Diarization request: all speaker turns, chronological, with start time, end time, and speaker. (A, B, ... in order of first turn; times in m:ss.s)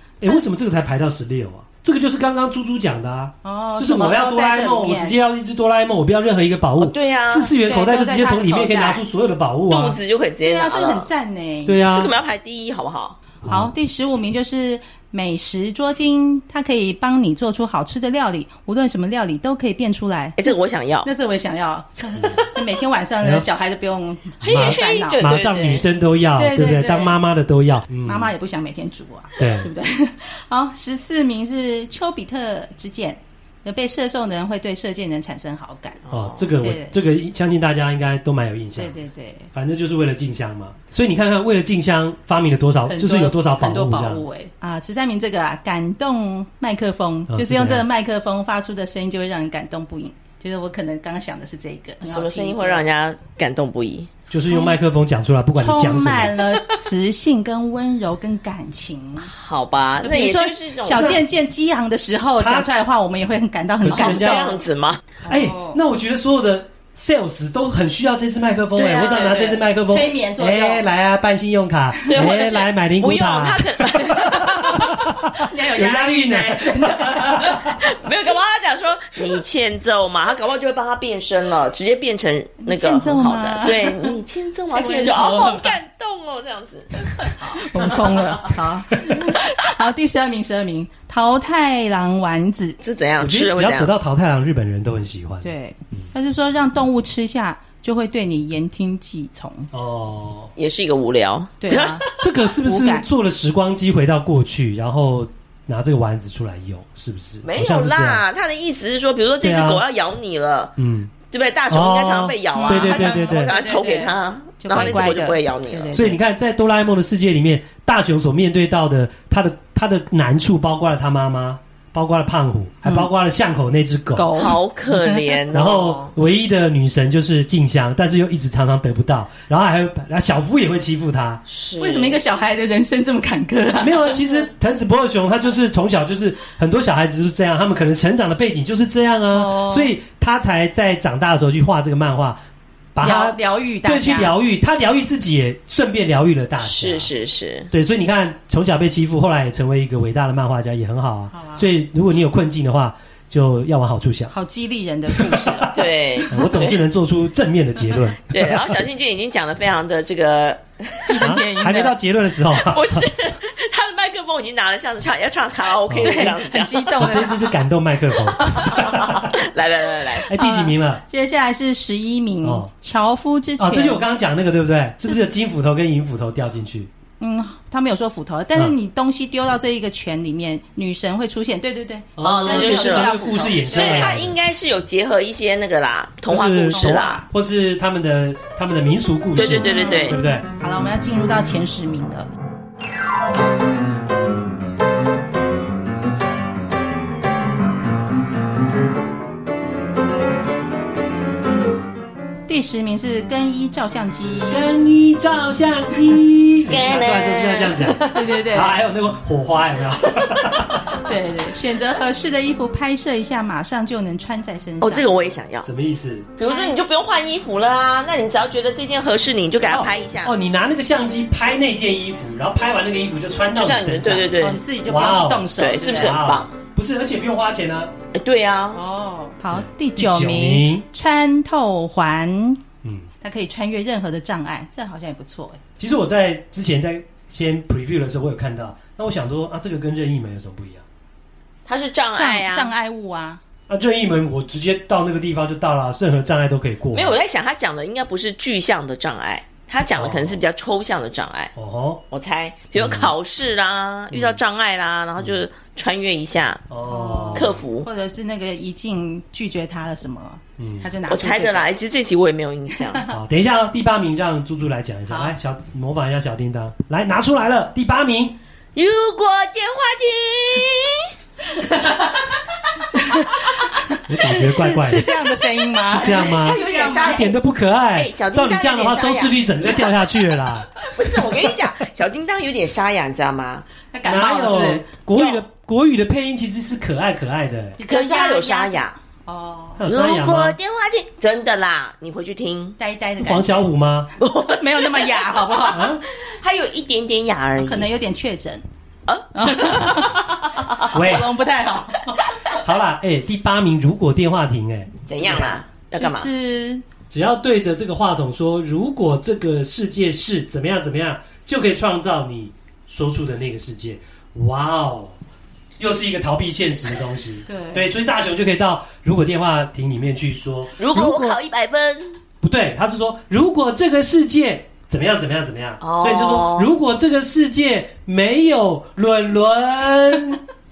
0:00.2-0:10.0 A
0:03.4-0:05.2 B
0:06.8-0:07.5 C
0:07.6-0:09.0 B
0:09.7-0:11.1 C
0:10.4-0:11.8 B
0:11.6-0:12.1 A
0:11.9-0:13.2 C
0:13.4-0:13.7 A
0:13.4-0:25.3 B
0:20.4-0:21.1 C
0:23.2-0:23.5 A
0:24.4-0:25.8 C
0:24.5-0:28.3 A
0:26.4-0:27.1 B
0:28.0-0:36.0 B
0:29.4-0:29.7 A
0:36.0-0:36.4 C
0:36.1-0:38.9 A
0:36.6-0:37.0 B
0:38.8-0:39.5 B
0:39.5-0:44.2 A
0:42.9-0:52.8 B
0:47.3-0:47.8 A
0:52.0-0:54.1 C
0:54.3-0:56.4 A
0:54.5-0:54.8 B
0:55.6-0:59.3 B
0:59.2-1:01.2 C
1:00.0-1:04.6 B
1:02.4-1:02.7 A
1:03.8-1:04.5 A
1:03.9-1:05.1 C
1:05.2-1:05.8 B
1:05.3-1:17.8 A
1:08.8-1:09.5 C
1:08.9-1:10.8 B
1:12.1-1:14.7 C
1:14.3-1:17.6 B
1:17.8-1:28.5 C
1:22.6-1:24.2 B
1:24.7-1:25.6 B
1:27.2-1:32.8 B
1:32.8-1:33.9 C
1:33.2-1:36.1 A
1:35.4-1:39.7 B
1:39.7-1:40.5 A
1:40.6-1:42.0 C
1:41.6-1:43.1 B
1:42.1-1:48.2 A
1:47.4-1:50.7 C
1:49.4-1:49.8 A
1:50.8-1:51.1 A
1:51.3-1:56.0 C
1:51.7-1:53.6 A
1:52.5-1:56.2 B
1:54.7-1:55.1 A
1:55.9-2:04.4 A
2:04.1-2:05.4 B
2:04.3-2:06.1 C
2:05.5-2:11.4 A
2:11.5-2:12.2 C
2:11.8-2:14.4 B
2:13.8-2:22.4 A
2:19.3-2:19.9 B
2:22.9-2:27.1 A
2:23.0-2:24.3 B
2:26.6-2:27.7 C
2:27.7-2:34.3 A
2:31.3-2:31.7 B
2:34.3-2:36.4 B
2:35.1-2:35.8 A
2:35.7-2:36.8 C
2:36.3-2:38.8 A
2:38.3-2:41.2 C
2:41.1-2:41.9 B
2:41.2-2:43.1 A
2:42.5-2:47.3 C
2:45.9-2:46.3 A
2:46.0-2:47.5 B
2:47.0-2:49.4 A
2:48.4-2:50.3 C
2:50.3-2:51.0 A
2:50.3-2:54.0 B
2:52.4-2:52.7 A
2:53.6-2:56.9 A
2:57.2-3:04.2 B
3:02.2-3:04.4 A
3:02.2-3:03.1 C
3:03.7-3:07.2 C
3:06.3-3:10.5 A
3:06.4-3:07.3 B
3:09.4-3:10.2 C
3:09.7-3:12.3 B
3:22.5-3:24.6 B
3:24.5-3:31.0 A
3:26.7-3:28.3 C
3:28.0-3:28.8 B
3:30.9-3:35.2 B
3:34.8-3:35.7 C
3:35.6-3:36.3 A
3:36.4-3:40.3 C
3:36.4-3:36.8 B
3:39.7-3:47.9 A
3:43.5-3:44.6 C
3:44.4-3:46.2 B
3:45.6-3:46.5 C
3:48.1-3:48.8 C
3:48.7-3:52.6 B
3:49.5-3:50.8 A
3:52.8-3:53.1 A
3:53.2-3:55.6 B
3:55.8-4:00.8 A
4:01.6-4:02.7 C
4:02.1-4:03.4 B
4:03.7-4:07.2 A
4:06.9-4:11.5 C
4:09.9-4:10.4 A
4:11.5-4:12.0 A
4:12.1-4:16.6 C
4:12.7-4:13.1 A
4:14.1-4:14.4 A
4:16.7-4:17.6 A
4:16.9-4:21.7 B
4:17.3-4:17.9 C
4:20.6-4:20.9 A
4:21.1-4:23.0 C
4:22.8-4:23.1 B
4:23.1-4:28.4 A
4:25.1-4:25.3 B
4:28.7-4:31.1 C
4:31.6-4:32.2 B
4:32.9-4:37.3 B
4:34.1-4:35.1 A
4:35.9-4:40.7 A
4:36.0-4:37.3 C
4:38.0-4:39.4 C
4:40.8-4:43.6 C
4:43.9-4:44.8 B
4:44.0-4:47.8 A
4:45.1-4:45.4 C
4:47.8-4:49.8 B
4:47.9-4:48.9 C
4:49.8-4:50.6 A
4:49.8-4:52.8 C
4:52.8-4:53.6 B
4:53.2-4:54.1 A
4:54.2-4:57.9 C
4:54.5-4:55.9 B
4:55.7-4:56.0 A
4:57.6-4:58.6 B
4:59.1-5:00.9 C
4:59.3-5:02.3 B
5:00.9-5:01.3 A
5:02.6-5:05.6 A
5:05.1-5:06.3 C
5:05.9-5:06.8 B
5:07.1-5:15.2 A
5:15.8-5:21.4 A
5:17.5-5:17.9 B
5:20.8-5:22.2 C
5:22.4-5:30.4 A
5:25.8-5:26.7 C